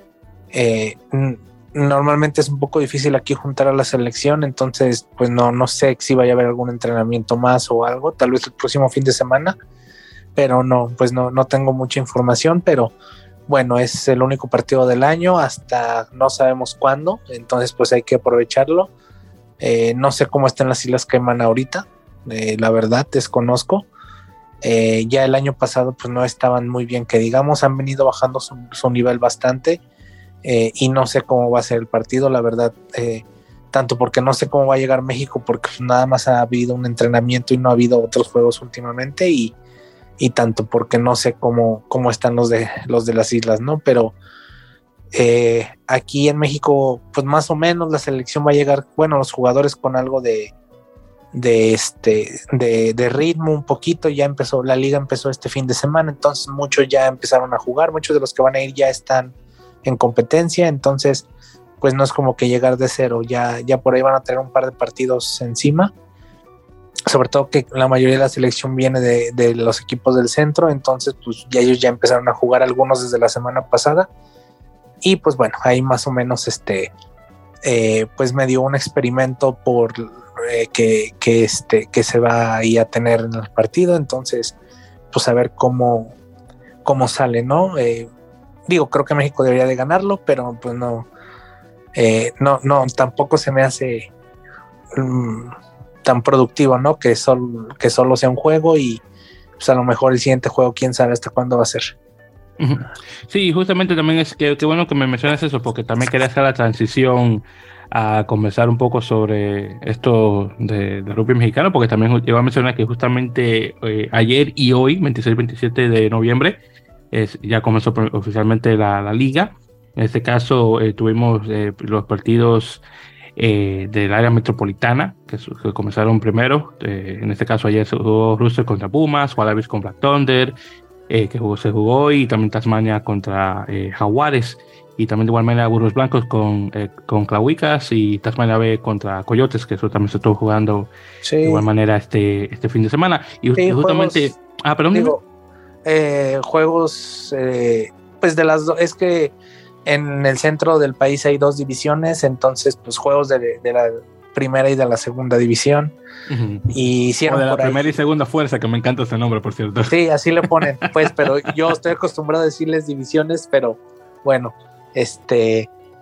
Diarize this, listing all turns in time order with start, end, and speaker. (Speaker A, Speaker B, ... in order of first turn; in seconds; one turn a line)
Speaker A: 0.5-9.6
Speaker A: 10.3-12.9
Speaker A: 13.5-18.9
Speaker A: 19.6-23.9
Speaker A: 24.6-29.8
Speaker A: 30.4-39.5
Speaker A: 40.2-44.1
Speaker A: 45.1-50.5
Speaker A: 51.3-59.3
Speaker A: 59.8-61.2
Speaker A: 61.8-65.9
Speaker A: 67.1-74.1
Speaker A: 75.0-76.9
Speaker A: 77.6-84.5
Speaker A: 85.1-86.2
Speaker A: 86.8-88.1
Speaker A: 88.7-91.1
Speaker A: 91.9-94.1
Speaker A: 94.9-95.5
Speaker A: 96.0-99.0
Speaker A: 99.6-101.9
Speaker B: 102.6-116.6
Speaker B: 117.1-122.8
Speaker B: 123.4-130.6
Speaker B: 131.1-140.9
Speaker A: 141.2-141.6
Speaker B: 141.4-145.2
Speaker A: 143.6-144.3
Speaker A: 144.9-145.2
Speaker A: 145.8-149.3
Speaker A: 149.8-155.9
Speaker B: 156.3-156.7
Speaker A: 156.7-157.8
Speaker B: 157.2-159.9
Speaker A: 159.9-165.7
Speaker B: 160.6-161.2